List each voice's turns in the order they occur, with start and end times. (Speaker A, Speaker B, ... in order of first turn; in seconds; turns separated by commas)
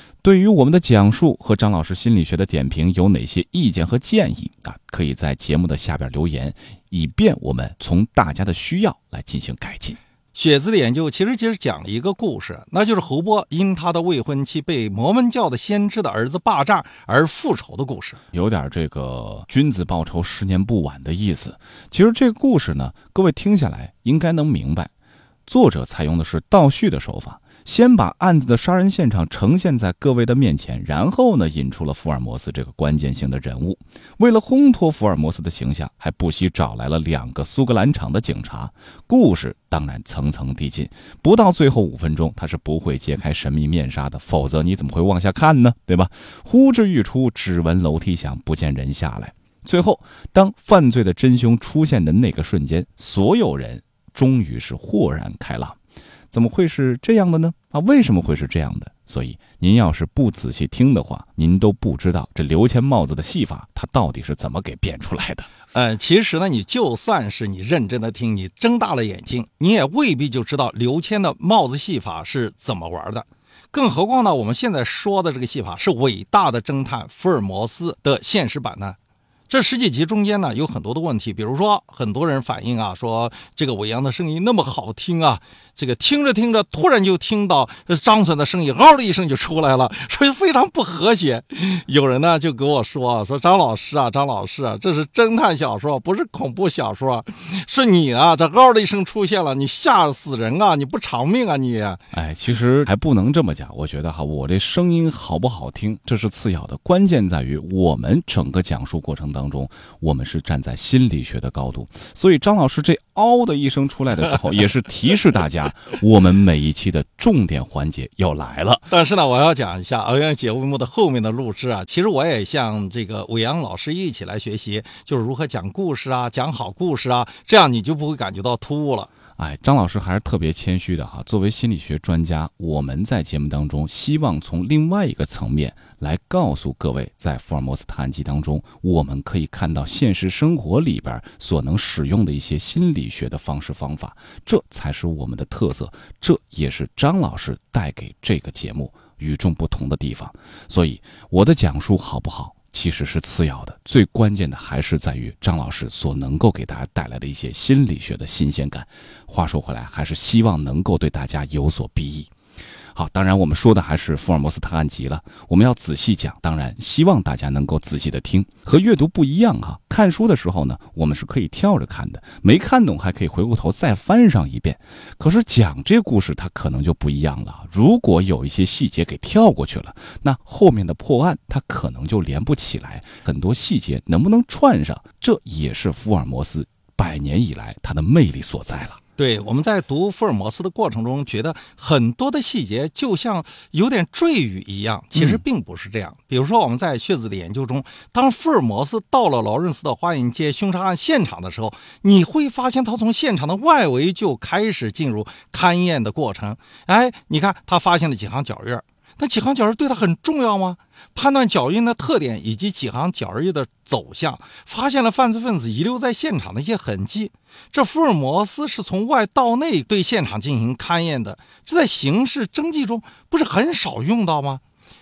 Speaker A: 0.2-10.0, Speaker B: 10.3-18.2, Speaker A: 18.3-24.9, Speaker A: 25.5-55.8, Speaker A: 56.3-65.5, Speaker B: 65.7-79.0, Speaker B: 79.5-102.0, Speaker A: 102.1-118.9, Speaker B: 118.9-129.1, Speaker A: 129.3-162.3, Speaker A: 162.9-189.0, Speaker B: 189.2-224.6, Speaker A: 195.2-195.4